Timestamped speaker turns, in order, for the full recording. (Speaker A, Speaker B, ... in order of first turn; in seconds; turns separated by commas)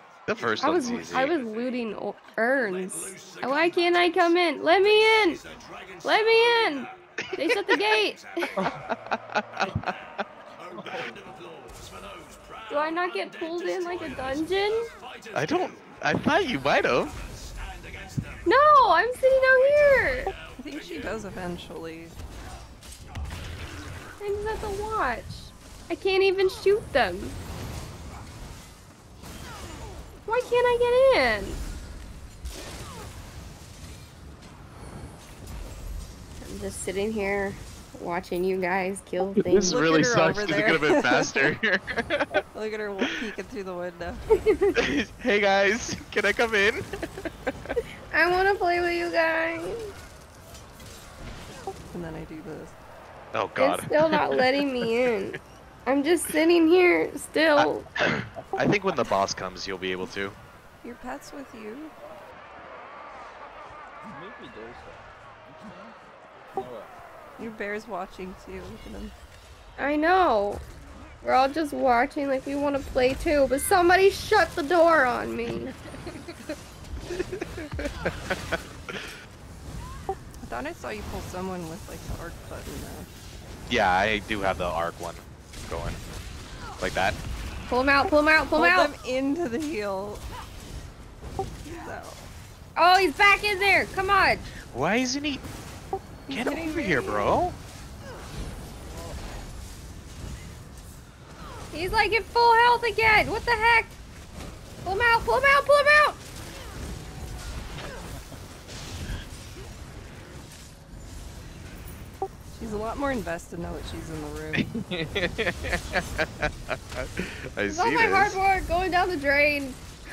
Speaker A: 0.3-1.4, Speaker B: 0.5-5.4, Speaker B: 6.0-8.6, Speaker A: 8.6-9.9, Speaker C: 10.7-11.2, Speaker B: 12.7-14.9, Speaker A: 15.3-17.2, Speaker B: 18.4-20.3, Speaker D: 20.6-22.1, Speaker B: 24.2-27.4, Speaker B: 30.3-31.6, Speaker B: 36.4-39.8, Speaker A: 39.4-42.4, Speaker D: 39.7-41.5, Speaker D: 42.5-44.2, Speaker B: 44.3-44.7, Speaker A: 44.8-46.8, Speaker A: 47.5-47.7, Speaker B: 48.1-49.9, Speaker D: 51.9-52.7, Speaker A: 53.3-54.5, Speaker B: 53.6-57.8, Speaker A: 57.6-60.4, Speaker D: 60.8-61.9, Speaker C: 64.0-66.0, Speaker C: 66.5-66.9, Speaker D: 67.4-69.1, Speaker B: 69.8-70.6, Speaker B: 71.2-75.7, Speaker A: 77.8-79.1, Speaker D: 80.4-83.1, Speaker A: 83.7-86.0, Speaker A: 86.8-87.2, Speaker B: 87.7-88.9, Speaker D: 88.6-90.2, Speaker D: 91.6-92.2, Speaker B: 92.8-94.5, Speaker A: 94.7-95.4, Speaker D: 96.3-97.4, Speaker A: 96.3-97.6, Speaker B: 101.7-104.0, Speaker B: 104.8-106.2, Speaker D: 112.6-114.7, Speaker A: 114.5-118.4, Speaker B: 117.7-119.8